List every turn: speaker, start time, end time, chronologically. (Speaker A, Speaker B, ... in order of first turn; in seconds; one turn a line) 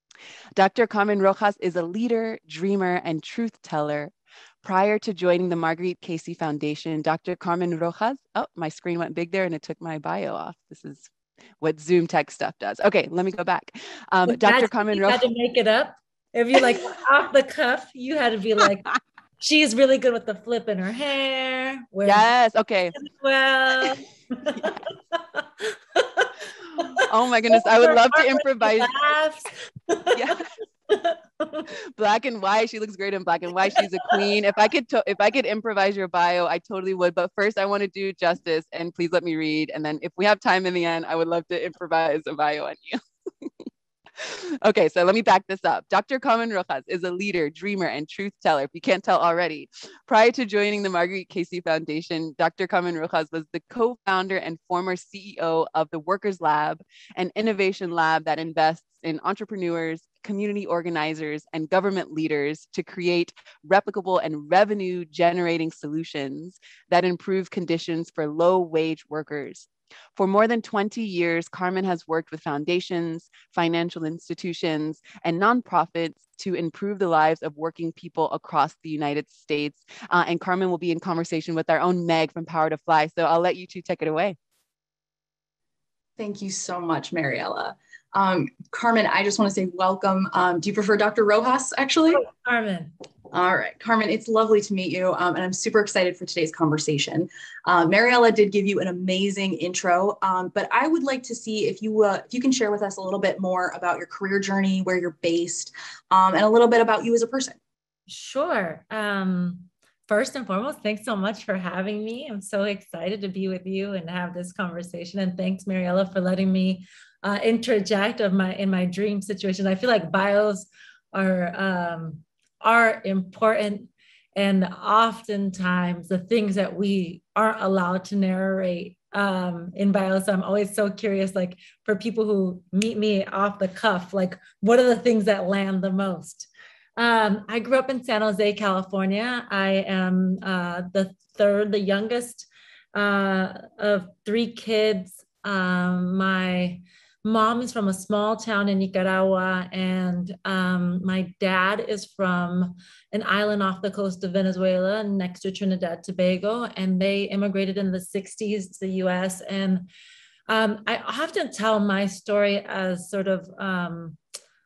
Speaker A: 0.6-11.1
Speaker A: 11.6-15.2
Speaker B: 14.3-18.9
Speaker B: 19.4-22.3
Speaker A: 22.0-22.9
Speaker B: 23.0-30.4
Speaker A: 26.7-28.9
Speaker A: 30.1-30.4
Speaker B: 30.9-31.6
Speaker A: 31.9-43.5
Speaker A: 44.2-84.3
Speaker C: 86.2-92.2
Speaker B: 92.1-92.9
Speaker C: 93.3-107.6
Speaker B: 108.1-159.9
Speaker B: 160.5-164.2